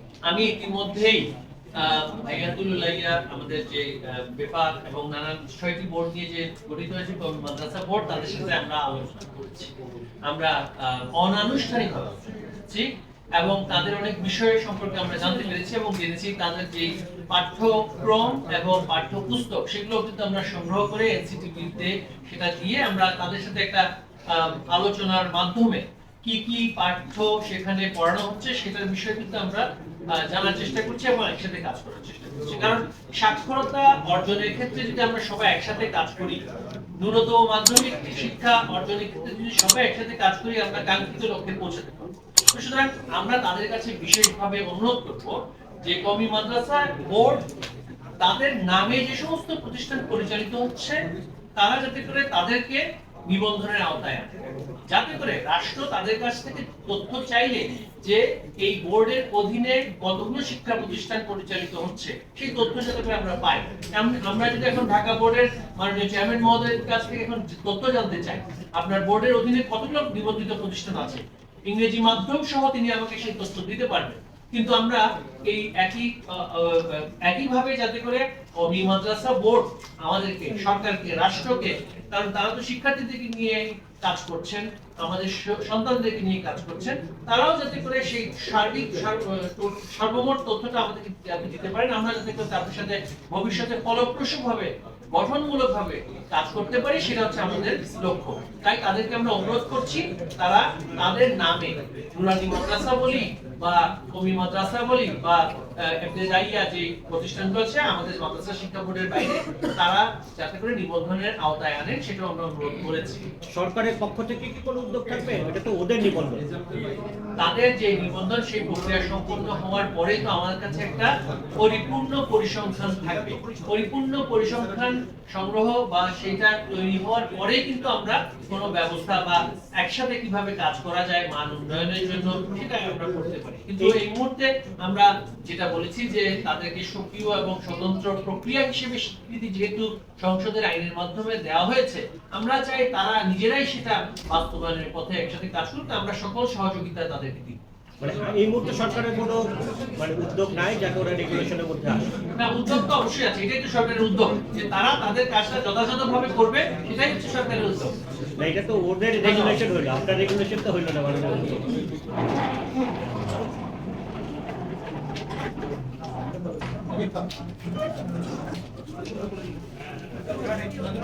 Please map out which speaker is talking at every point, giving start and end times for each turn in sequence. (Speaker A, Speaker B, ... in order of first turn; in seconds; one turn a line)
Speaker A: 0.3-1.2
Speaker A: 1.8-9.7
Speaker A: 10.2-36.4
Speaker A: 37.0-47.4
Speaker A: 48.2-51.0
Speaker A: 51.6-113.3
Speaker B: 113.5-116.4
Speaker A: 117.4-147.6
Speaker B: 148.0-149.4
Speaker B: 150.0-152.1
Speaker A: 152.3-158.0
Speaker B: 158.4-161.7
Speaker A: 159.2-159.6